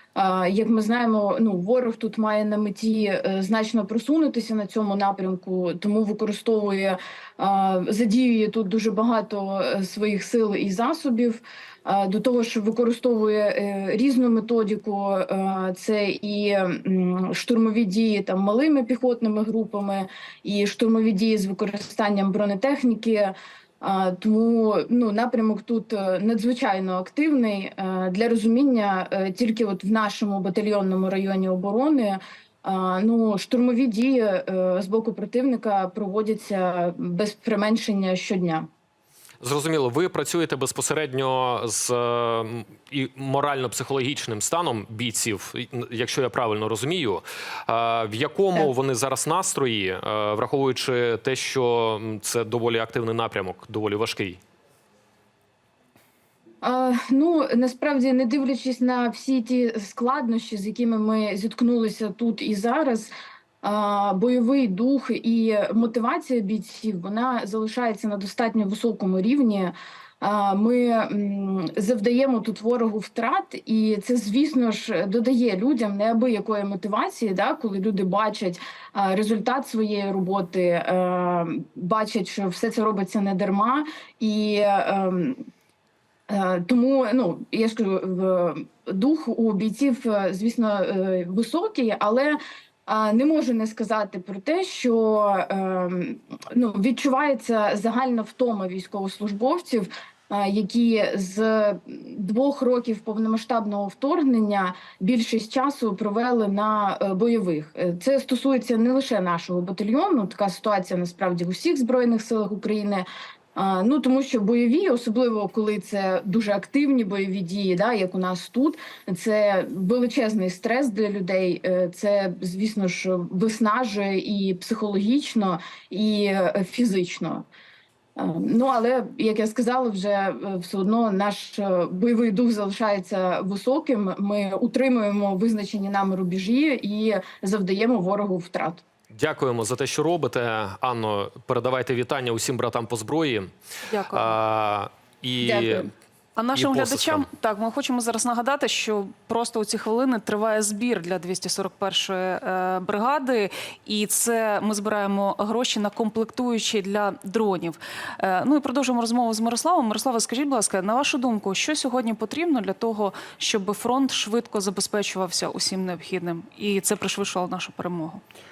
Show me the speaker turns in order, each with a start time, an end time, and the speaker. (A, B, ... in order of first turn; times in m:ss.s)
0:00.1-0:38.7 A
0:39.4-0:54.4 B
0:56.6-1:03.1 A
1:03.6-1:25.4 A
1:26.3-2:07.5 A
2:08.2-2:18.8 A
2:19.1-2:23.5 B
2:23.9-2:24.4 C
2:24.1-2:25.9 B
2:25.4-2:25.9 A
2:26.4-2:48.2 C
2:26.5-2:27.3 B